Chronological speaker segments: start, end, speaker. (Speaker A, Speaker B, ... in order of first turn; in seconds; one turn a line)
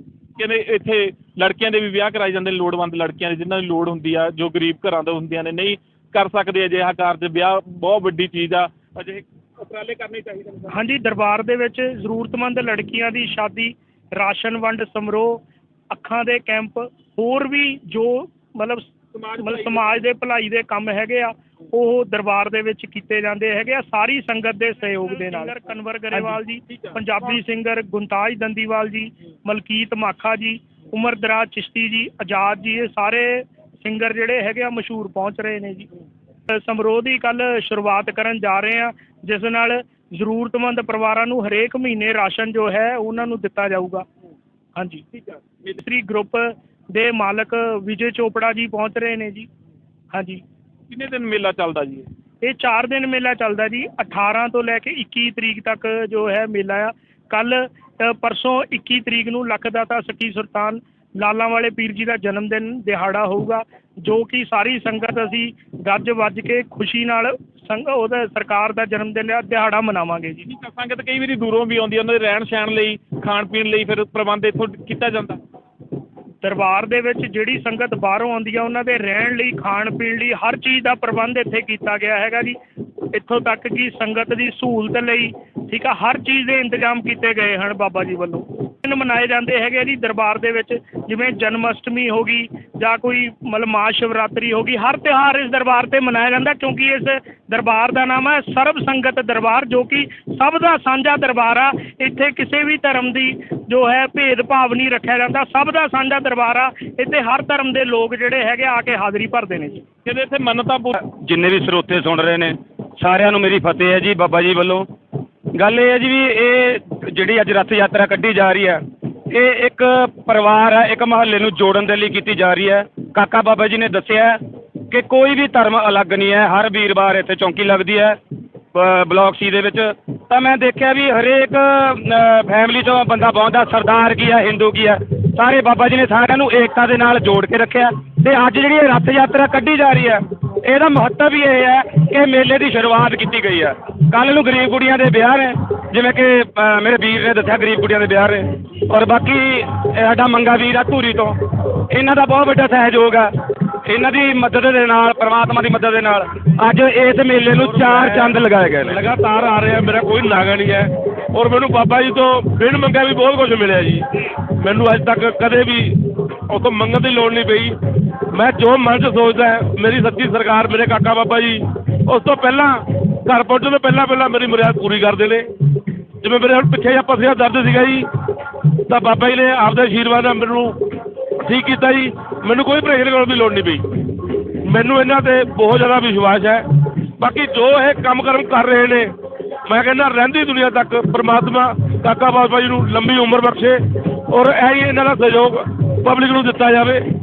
Speaker A: 0.4-10.7
Speaker B: 10.7-35.9
Speaker A: 19.1-19.9
Speaker A: 26.3-27.4
Speaker B: 36.5-44.0
Speaker B: 44.8-45.1
Speaker A: 45.3-45.6
Speaker B: 45.6-49.5
Speaker B: 50.1-50.4
Speaker A: 50.9-52.1
Speaker B: 52.4-70.4
Speaker A: 70.4-75.4
Speaker B: 76.4-82.6
Speaker B: 83.1-109.8
Speaker A: 110.0-110.9
Speaker C: 110.9-114.9
Speaker C: 115.5-128.2
Speaker C: 128.7-153.3
Speaker C: 153.8-159.0
Speaker D: 157.5-167.8
Speaker D: 168.3-175.5
Speaker D: 176.2-178.1
Speaker D: 178.8-180.8
Speaker D: 181.4-183.8
Speaker D: 184.6-186.7
Speaker D: 187.2-189.1
Speaker D: 189.7-197.0